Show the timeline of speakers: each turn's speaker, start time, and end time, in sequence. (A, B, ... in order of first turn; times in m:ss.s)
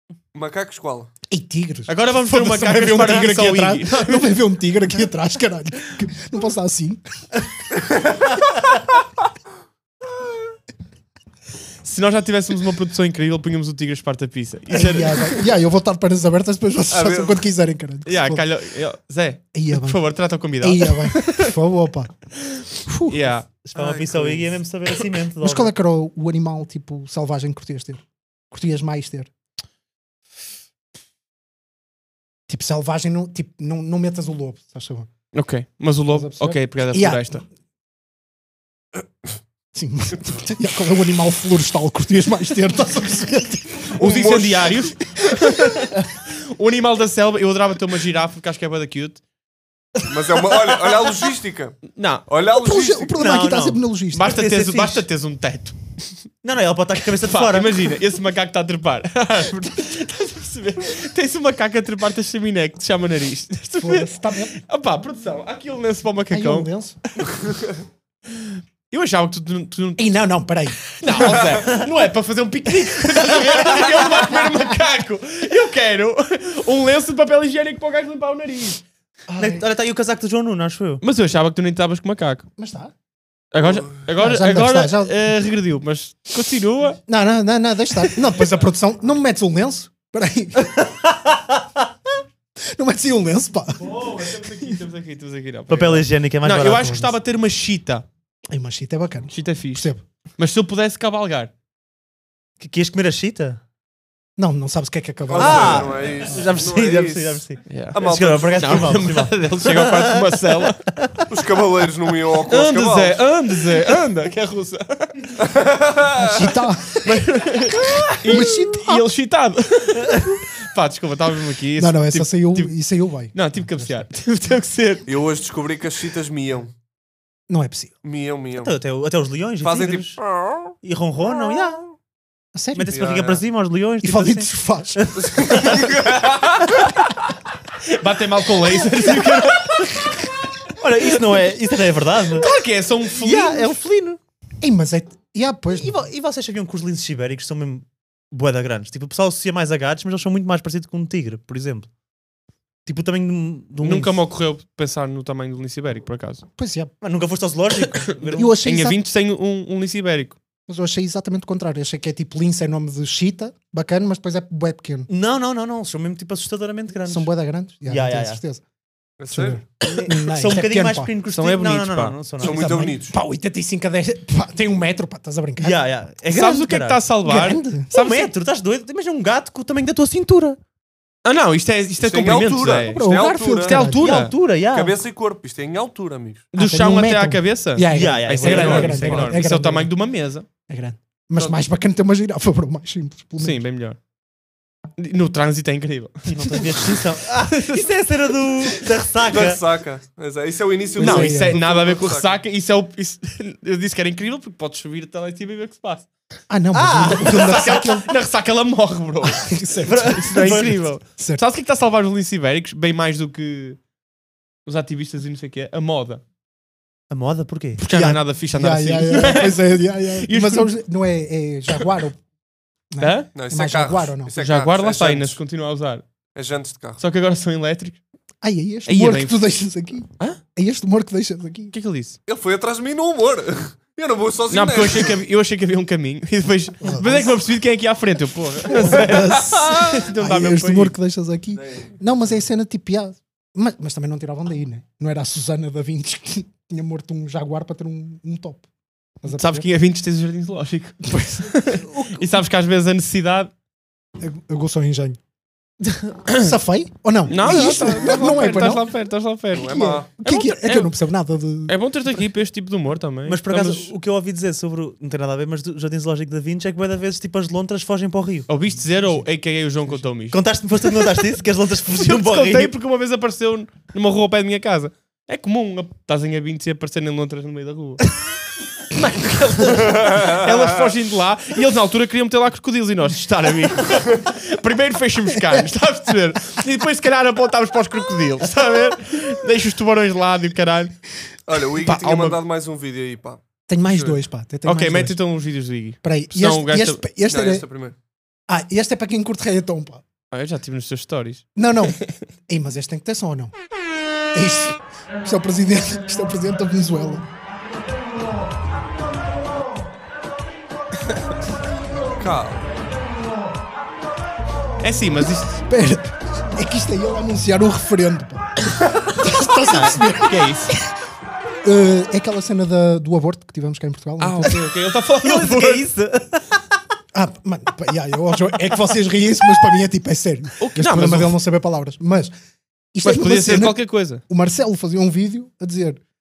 0:00.3-0:01.1 A
0:01.3-0:07.0 B
0:01.9-0:04.3 C
0:11.8-0:15.4 C
0:14.7-0:18.4 B
0:16.9-0:17.4 A
0:18.0-0:21.5 C
0:19.5-0:22.1 B
0:22.5-0:23.5 C
0:22.8-0:23.4 B
0:23.6-0:25.7 D
0:23.7-0:24.4 A
0:25.4-0:29.3 B
0:32.5-0:35.1 B
0:35.3-0:37.4 C
0:36.1-0:37.4 B
0:39.7-0:45.9 B
0:44.0-0:49.2 C
0:44.2-0:44.5 A
0:50.1-0:53.1 A
0:51.9-0:52.2 C
0:52.5-0:54.3 B
0:53.2-0:55.0 D
0:54.1-0:55.8 C
0:56.4-0:58.0 D
0:57.2-1:04.1 C
1:03.8-1:04.6 B
1:04.6-1:06.7 C
1:06.3-1:07.0 B
1:08.9-1:10.0 C
1:10.0-1:11.6 B
1:11.0-1:18.8 C
1:13.2-1:14.4 B
1:19.3-1:19.6 B
1:19.4-1:21.0 D
1:21.0-1:22.4 C
1:22.6-1:22.9 B
1:23.5-1:27.0 C
1:23.6-1:24.0 A
1:24.2-1:25.2 B
1:27.1-1:30.8 B
1:32.6-1:34.8 B
1:33.8-1:38.0 C
1:35.7-1:37.1 D
1:38.5-1:40.0 B
1:39.3-1:41.5 C
1:42.6-1:43.6 D
1:44.4-1:46.4 B
1:45.3-1:47.4 A
1:45.3-1:51.2 D
1:47.7-1:50.9 C
1:47.9-1:49.0 A
1:51.3-1:53.2 A
1:52.5-1:55.1 C
1:55.4-1:56.5 A
1:56.2-1:57.0 B
1:57.0-2:02.7 C
1:58.2-1:59.1 B
2:01.8-2:04.1 B
2:03.3-2:05.1 C
2:05.1-2:06.7 A
2:07.5-2:07.9 B
2:08.0-2:08.7 A
2:08.6-2:10.2 D
2:09.6-2:10.7 A
2:10.8-2:11.8 D
2:12.5-2:12.9 B
2:12.7-2:15.1 D
2:12.9-2:13.4 A
2:14.0-2:15.1 B
2:15.1-2:16.9 A
2:17.8-2:20.2 C
2:20.8-2:22.5 D
2:22.4-2:23.7 C
2:23.2-2:24.2 D
2:24.6-2:26.0 B
2:25.7-2:31.9 D
2:32.9-2:34.2 D
2:33.8-2:36.4 C
2:36.6-2:36.9 B
2:37.0-2:38.6 D
2:38.3-2:39.0 B
2:38.4-2:40.4 C
2:40.7-2:45.1 B
2:45.1-2:47.3 D
2:47.0-2:48.6 B
2:47.9-2:48.4 D
2:49.2-2:49.6 A
2:49.3-2:51.1 B
2:49.8-2:52.9 D
2:51.3-2:52.2 C
2:52.4-2:55.8 B
2:52.4-2:53.1 A
2:55.6-2:57.0 D
2:56.3-2:58.3 C
2:57.2-2:57.9 B
2:57.9-3:00.6 D
3:01.2-3:04.3 C
3:02.0-3:03.8 A
3:02.8-3:04.0 B
3:04.0-3:05.0 D
3:04.7-3:06.5 A
3:06.5-3:10.4 C
3:06.6-3:09.9 B
3:07.9-3:09.3 D
3:10.7-3:13.6 B
3:13.4-3:14.0 C
3:15.0-3:16.3 C
3:16.3-3:19.6 D
3:17.5-3:17.8 C
3:19.3-3:22.4 A
3:21.0-3:21.6 B
3:21.0-3:26.1 C
3:26.5-3:28.1 B
3:26.7-3:27.7 D
3:27.2-3:29.5 C
3:29.3-3:31.4 B
3:29.8-3:30.8 D
3:30.1-3:33.8 C
3:34.6-3:36.2 C
3:37.1-3:37.8 D
3:37.8-3:39.6 C
3:37.8-3:42.2 B
3:40.2-3:40.7 C
3:42.9-3:44.3 B
3:43.0-3:43.3 C
3:43.3-3:45.4 A
3:44.4-3:46.0 C
3:46.3-3:47.0 A
3:47.0-3:48.0 C
3:48.4-3:51.7 B
3:48.9-3:49.4 C
3:51.7-3:52.2 C
3:52.3-3:55.2 A
3:54.5-4:00.9 C
3:56.8-3:57.4 B
3:58.7-4:08.6 B
4:01.6-4:01.9 A
4:09.2-4:09.7 B
4:09.3-4:13.5 C
4:11.0-4:12.2 B
4:14.2-4:15.2 B
4:16.4-4:18.9 B
4:17.3-4:20.9 C
4:19.5-4:20.1 A
4:19.6-4:21.7 B
4:21.7-4:23.9 C
4:23.3-4:28.5 D
4:28.5-4:30.4 C
4:30.3-4:32.7 D
4:32.0-4:38.0 C
4:38.9-4:50.9 C
4:39.9-4:40.9 A
4:51.5-4:54.2 A
4:51.8-4:52.4 C
4:53.7-4:55.2 B
4:54.6-4:57.0 C
4:56.0-4:57.6 B
4:57.3-4:57.9 A
4:58.5-5:00.0 B
5:00.3-5:01.4 C
5:01.5-5:03.5 B
5:04.3-5:07.3 B
5:12.1-5:12.7 A
5:14.8-5:15.6 C
5:15.7-5:18.4 B
5:19.0-5:20.5 B
5:19.7-5:20.7 C
5:21.6-5:24.6 B
5:24.2-5:25.9 C
5:25.2-5:26.6 D
5:27.1-5:32.3 B
5:30.6-5:31.4 C
5:32.9-5:36.0 B
5:33.0-5:34.2 C